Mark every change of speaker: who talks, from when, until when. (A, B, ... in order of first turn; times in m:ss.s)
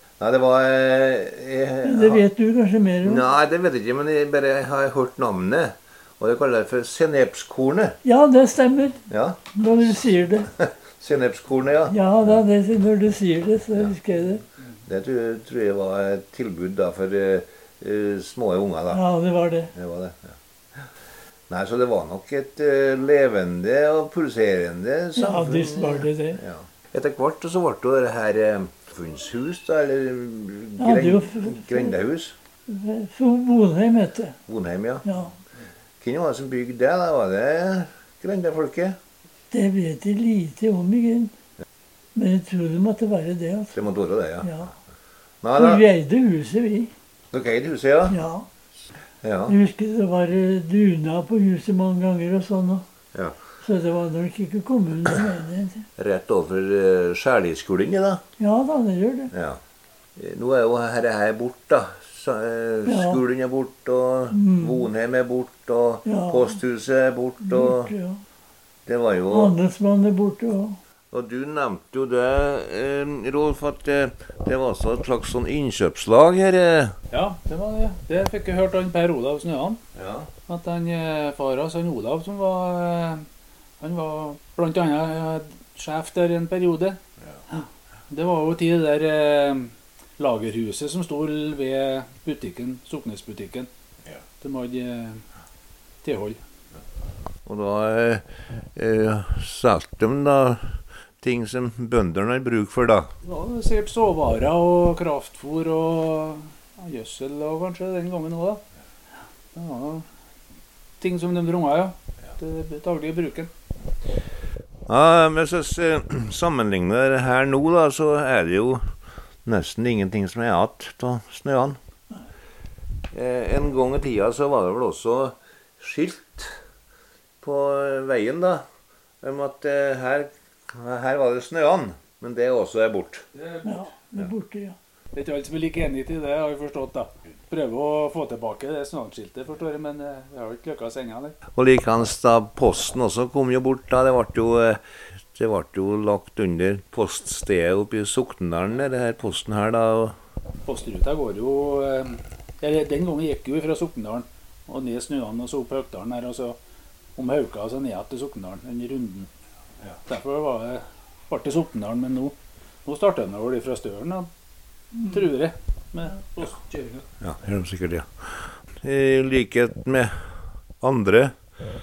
0:00.2-0:02.2 A
0:01.8-0:03.2 B
0:03.0-0:08.0 A
0:08.0-0:10.5 B
0:09.1-0:09.4 A
0:10.5-0:12.0 A
0:11.9-0:14.4 B
0:14.8-0:19.0 A
0:18.9-0:19.7 B
0:19.7-0:20.4 A
0:21.5-0:32.3 A
0:25.2-0:26.4 B
0:30.8-0:32.0 B
0:32.7-0:34.4 B
0:34.5-0:35.0 A
0:35.0-0:35.3 B
0:36.0-0:39.0 A
0:39.5-0:41.3 B
0:42.1-0:43.8 B
0:43.7-0:44.5 A
0:44.4-0:44.7 B
0:45.4-0:45.8 A
0:45.6-0:46.9 B
0:47.3-0:48.2 A
0:48.1-0:48.5 B
0:49.2-0:49.5 A
0:49.5-0:52.8 B
0:53.6-0:55.8 B
0:56.0-0:58.2 A
0:58.4-0:59.3 B
0:59.3-0:59.6 A
1:00.2-1:07.9 A
1:02.8-1:03.2 B
1:04.3-1:04.8 B
1:06.0-1:06.6 B
1:07.4-1:08.2 B
1:08.8-1:09.5 A
1:09.3-1:10.8 B
1:11.1-1:16.9 A
1:17.1-1:19.8 C
1:20.0-1:20.3 A
1:20.5-1:23.2 C
1:23.8-1:27.0 C
1:27.5-1:33.7 C
1:34.4-1:35.2 C
1:36.0-1:36.4 C
1:37.4-1:43.1 A
1:43.2-1:48.6 C
1:49.5-1:50.0 C
1:51.0-1:53.5 C
1:54.9-1:58.9 A
1:59.4-2:01.8 A
2:03.1-2:06.6 A
2:07.4-2:08.6 A
2:09.2-2:13.2 A
2:13.3-2:13.8 C
2:13.6-2:14.8 B
2:15.1-2:21.4 C
2:21.6-2:24.8 A
2:25.3-2:30.2 A
2:30.6-2:36.6 C
2:37.2-2:39.3 C
2:40.1-2:44.3 C
2:45.0-2:47.0 C
2:47.2-2:50.2 A
2:50.8-2:51.3 A